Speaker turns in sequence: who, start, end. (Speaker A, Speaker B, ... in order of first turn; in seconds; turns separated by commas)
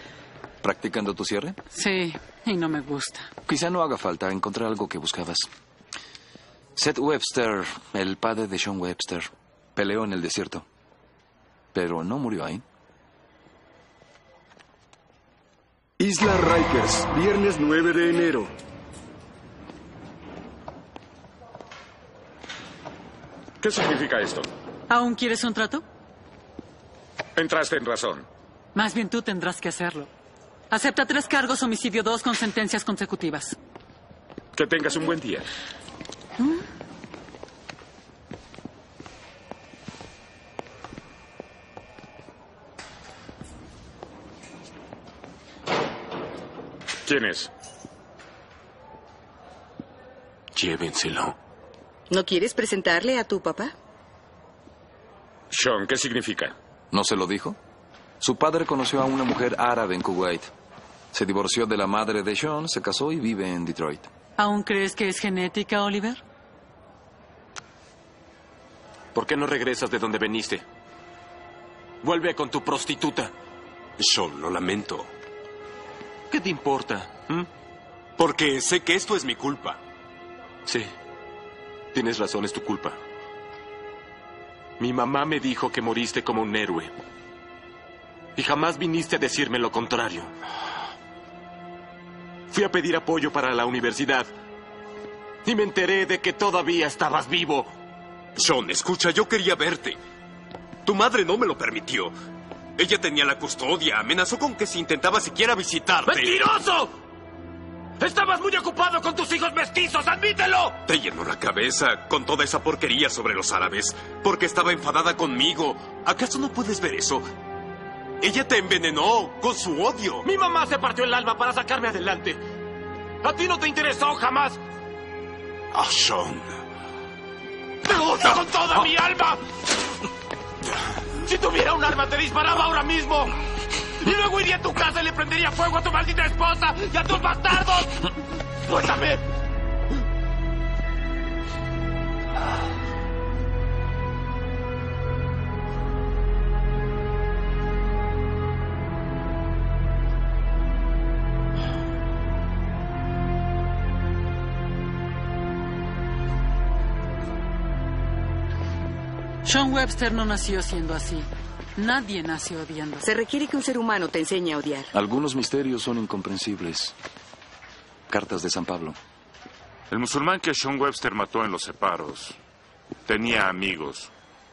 Speaker A: 0.6-1.6, Speaker B: 1.7-3.3, Speaker A: 3.5-5.5, Speaker A: 6.8-10.6, Speaker A: 11.7-12.6, Speaker C: 16.0-18.5, Speaker D: 23.6-24.5, Speaker B: 24.9-25.8, Speaker D: 27.4-28.2, Speaker B: 28.7-30.1, Speaker B: 30.7-33.6, Speaker D: 34.5-35.5, Speaker D: 47.0-47.5, Speaker E: 50.5-51.3, Speaker F: 52.1-53.7, Speaker D: 55.5-56.5, Speaker A: 56.9-57.6, Speaker A: 58.2-60.5, Speaker A: 61.1-64.1, Speaker B: 64.4-66.2, Speaker E: 69.1-70.6, Speaker E: 72.0-73.3, Speaker G: 74.0-75.1, Speaker E: 76.3-77.5, Speaker G: 78.2-79.8, Speaker E: 80.6-80.9, Speaker E: 81.9-83.0, Speaker E: 84.8-86.9, Speaker E: 88.3-90.3, Speaker E: 92.5-94.3, Speaker E: 95.4-97.7, Speaker G: 98.3-100.0, Speaker G: 100.8-102.1, Speaker G: 102.8-106.4, Speaker E: 106.0-106.9, Speaker E: 108.0-110.8, Speaker G: 110.8-117.2, Speaker G: 118.2-120.2, Speaker E: 120.2-122.4, Speaker E: 123.2-124.6, Speaker G: 125.7-126.5, Speaker E: 127.8-129.4, Speaker E: 131.2-133.4, Speaker E: 134.0-138.0, Speaker E: 138.7-139.2, Speaker B: 159.4-163.0, Speaker F: 163.0-164.9, Speaker A: 164.9-166.9, Speaker A: 168.1-169.0, Speaker H: 169.9-172.4, Speaker H: 173.1-174.1